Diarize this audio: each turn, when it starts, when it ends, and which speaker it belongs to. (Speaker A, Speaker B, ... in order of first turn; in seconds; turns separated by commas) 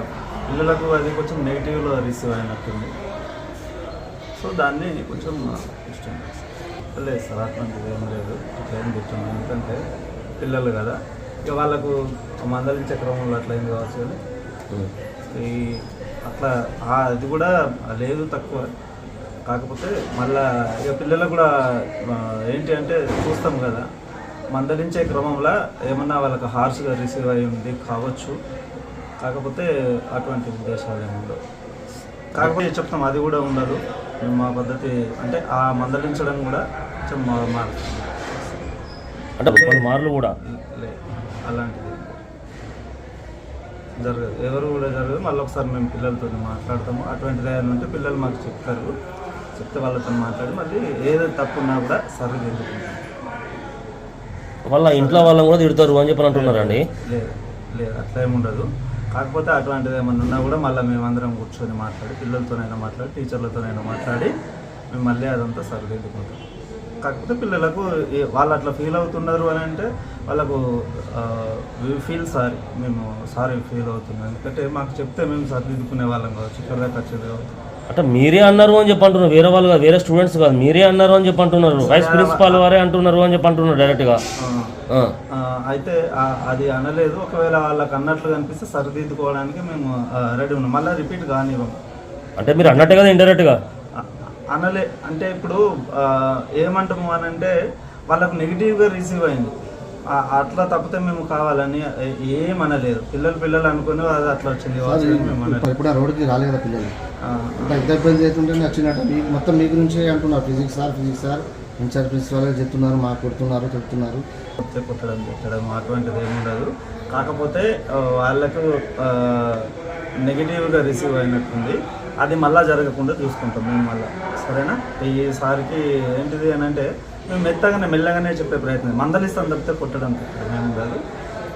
Speaker A: 0.5-2.9, Speaker A: 4.4-6.2, Speaker A: 7.0-9.8, Speaker A: 10.4-11.0, Speaker A: 11.5-11.9, Speaker A: 12.4-14.2, Speaker A: 15.3-15.7, Speaker A: 16.3-18.7, Speaker A: 19.5-21.5, Speaker A: 22.1-23.9, Speaker A: 24.5-28.4, Speaker A: 29.2-31.4, Speaker A: 32.4-38.3, Speaker B: 39.4-40.3, Speaker A: 39.5-39.9, Speaker A: 40.8-42.2, Speaker A: 44.0-48.9, Speaker A: 49.6-53.0, Speaker B: 54.7-56.8, Speaker A: 54.9-55.3, Speaker A: 56.3-64.3, Speaker A: 64.9-66.4, Speaker A: 67.0-70.6, Speaker A: 71.2-77.5, Speaker B: 77.9-84.2, Speaker A: 81.8-82.7, Speaker A: 84.4-84.7, Speaker A: 85.4-91.7, Speaker B: 92.4-93.5, Speaker A: 94.5-97.5, Speaker A: 98.1-99.5, Speaker A: 100.3-105.7, Speaker C: 104.8-106.9, Speaker A: 107.3-107.9, Speaker C: 107.6-114.2, Speaker A: 114.6-119.7, Speaker A: 120.2-131.0